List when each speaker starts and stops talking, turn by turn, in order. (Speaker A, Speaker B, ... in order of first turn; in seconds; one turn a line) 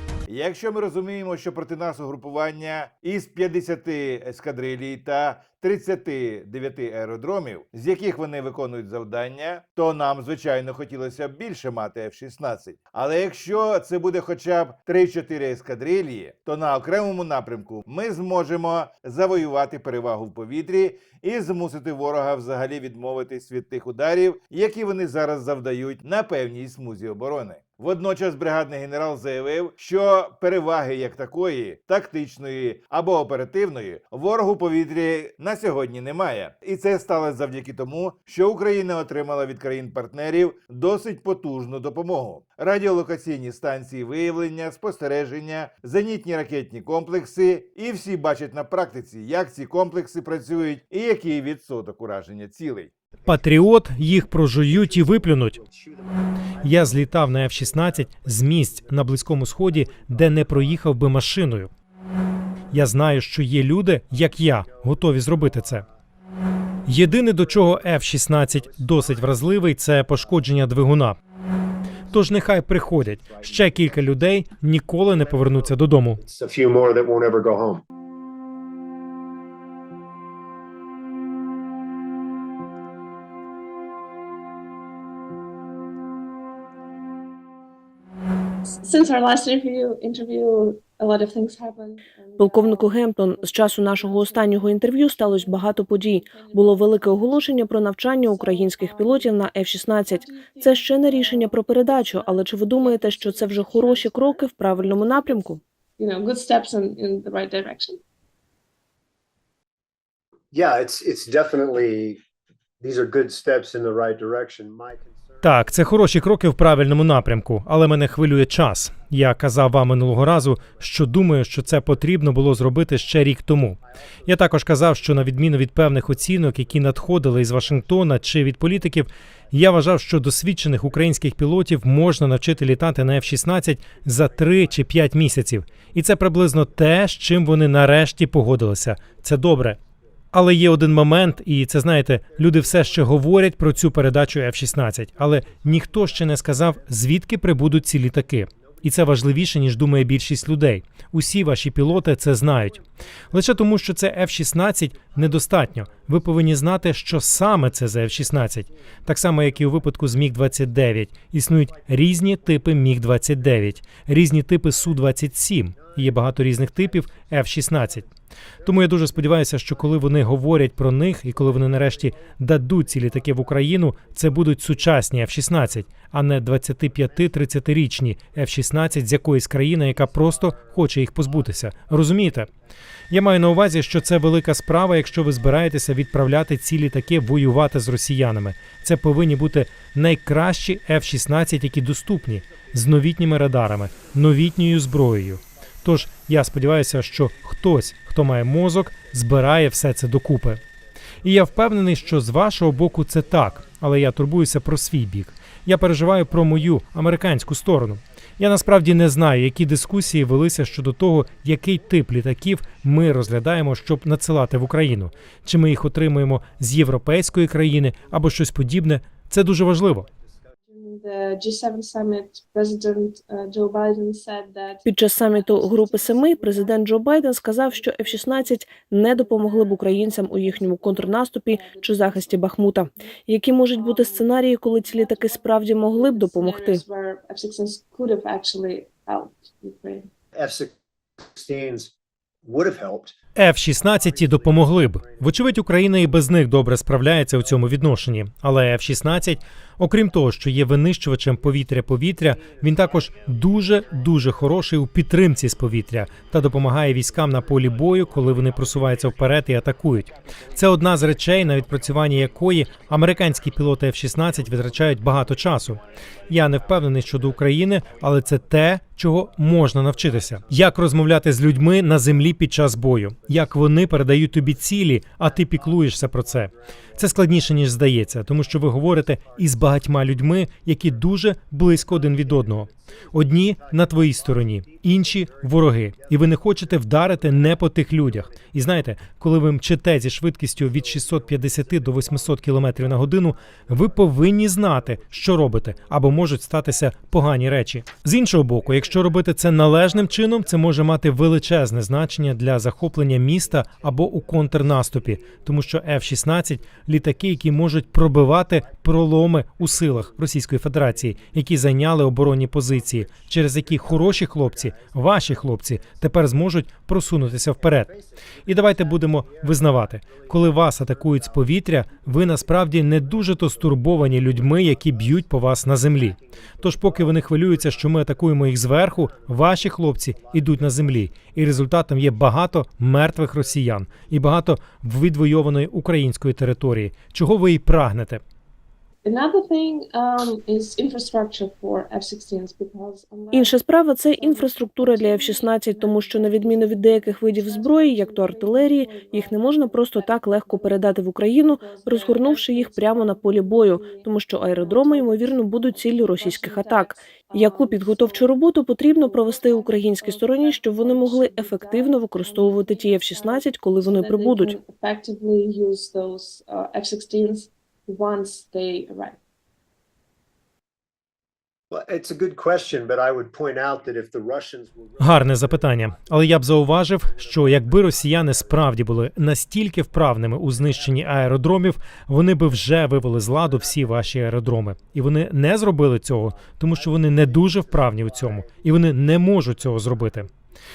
Speaker A: 0.3-52.9
Speaker B: 53.2-55.6
Speaker C: 53.2-60.9
Speaker B: 56.6-61.7
Speaker B: 62.7-65.8
Speaker C: 64.2-65.8
Speaker B: 66.9-71.2
Speaker C: 67.3-70.6
Speaker B: 72.1-76.2
Speaker C: 72.1-74.3
Speaker C: 75.1-77.8
Speaker D: 88.8-108.0
Speaker E: 92.4-105.6
Speaker C: 110.5-112.2
Speaker C: 112.8-116.2
Speaker B: 115.4-139.8
Speaker C: 117.2-117.4
Speaker C: 120.3-131.4
Speaker C: 132.3-135.9
Speaker C: 136.6-137.1
Speaker C: 138.9-139.8
Speaker B: 140.3-168.1
Speaker C: 142.2-147.0
Speaker C: 147.6-149.9
Speaker C: 151.8-153.9
Speaker C: 154.9-156.5
Speaker C: 157.3-160.8
Speaker C: 161.6-164.1
Speaker C: 164.7-176.1
Speaker B: 168.6-182.5
Speaker C: 176.8-177.6
Speaker C: 178.3-178.5
Speaker C: 179.8-182.6
Speaker B: 183.1-200.6
Speaker C: 183.2-186.4
Speaker C: 187.0-187.5
Speaker C: 192.1-193.2
Speaker C: 193.8-198.3
Speaker C: 198.9-218.8
Speaker B: 201.2-220.1
Speaker C: 219.6-220.3
Speaker D: 220.7-240.1
Speaker E: 224.8-236.8
Speaker C: 240.3-240.7
Speaker C: 241.3-241.9
Speaker C: 242.4-243.1
Speaker B: 243.3-317.9
Speaker C: 243.7-245.6
Speaker C: 247.4-248.0
Speaker C: 251.3-254.7
Speaker C: 255.2-281.1
Speaker C: 281.7-288.7
Speaker C: 290.6-316.3
Speaker C: 317.2-334.3
Speaker B: 318.4-338.2
Speaker D: 339.0-358.4
Speaker E: 343.3-364.6
Speaker D: 358.9-369.2
Speaker C: 371.7-379.0
Speaker B: 375.0-390.3
Speaker C: 380.5-381.4
Speaker C: 382.4-390.3